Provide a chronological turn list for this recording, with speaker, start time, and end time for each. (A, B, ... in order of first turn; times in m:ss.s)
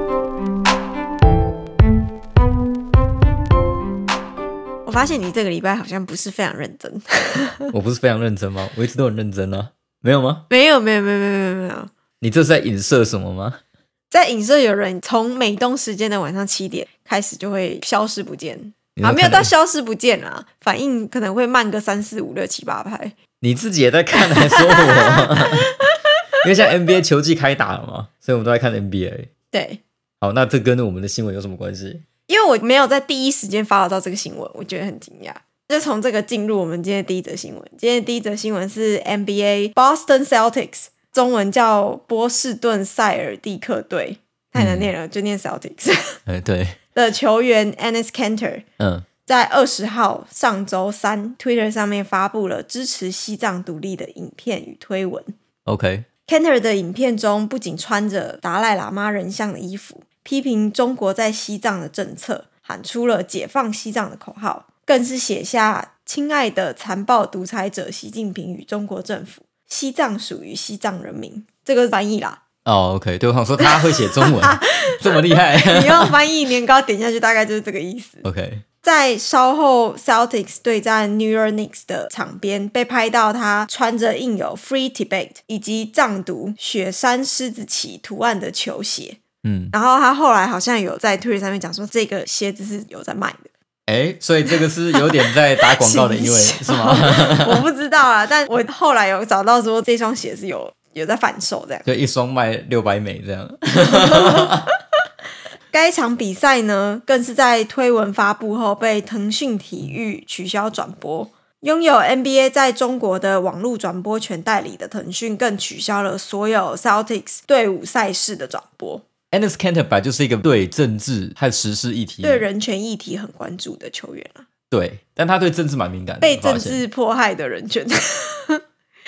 0:04.8-0:07.7 A
0:07.7-0:10.4 B
0:10.5-0:11.9 A
0:12.2-0:13.6 B
0:14.1-0:23.2 A
0:19.0-0:19.5 B
0:23.4-0:25.7 B
0:24.2-0:26.1 A
0:26.4-0:29.3 B
0:29.5-0:29.8 A
0:30.2-0:32.0 B
0:32.3-0:46.2 A
0:44.6-0:44.9 B
0:46.2-0:46.8 B
0:46.9-0:48.6 A
0:48.8-0:49.0 B
0:49.2-0:55.3 A
0:55.6-0:56.0 B
0:56.3-1:12.4 A
1:12.6-1:16.2 B
1:13.6-1:18.2 A
1:18.2-1:18.6 B
1:18.8-1:29.2 A
1:29.4-1:29.7 B
1:29.7-1:33.5 A
1:33.9-1:37.6 B
1:34.9-1:41.8 A
1:41.8-1:44.6 B
1:43.8-1:44.7 A
1:45.7-1:59.0 A
1:59.3-2:02.5 B
2:02.2-2:04.4 A
2:04.7-2:06.8 B
2:06.2-2:08.6 A